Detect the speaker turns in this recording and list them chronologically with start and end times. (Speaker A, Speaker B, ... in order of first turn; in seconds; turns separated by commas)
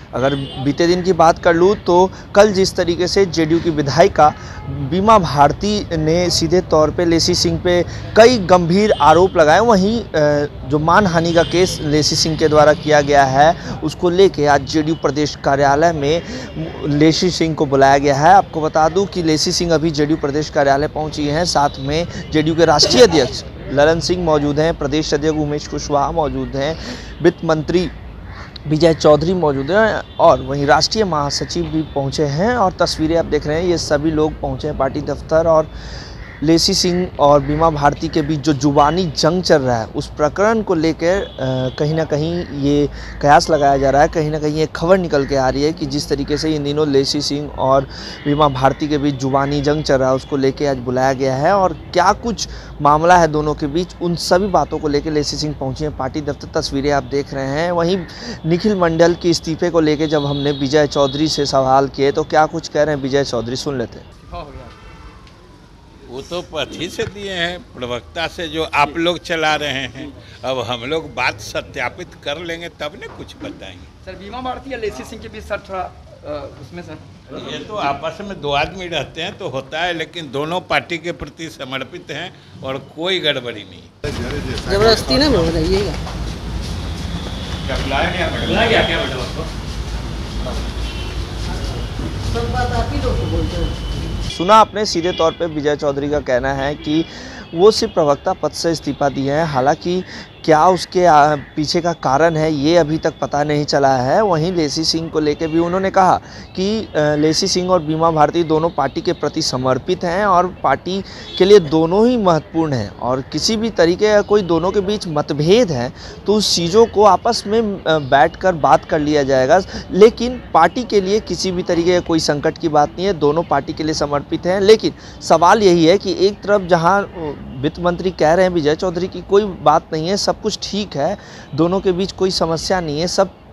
Speaker A: 0.1-27.9, Speaker A: 28.7-35.7, Speaker A: 36.4-64.0, Speaker B: 64.2-64.8, Speaker C: 66.1-73.9, Speaker B: 74.0-77.0, Speaker C: 77.3-83.9, Speaker D: 84.6-86.0, Speaker C: 87.7-89.3, Speaker D: 92.3-93.7, Speaker A: 94.3-133.3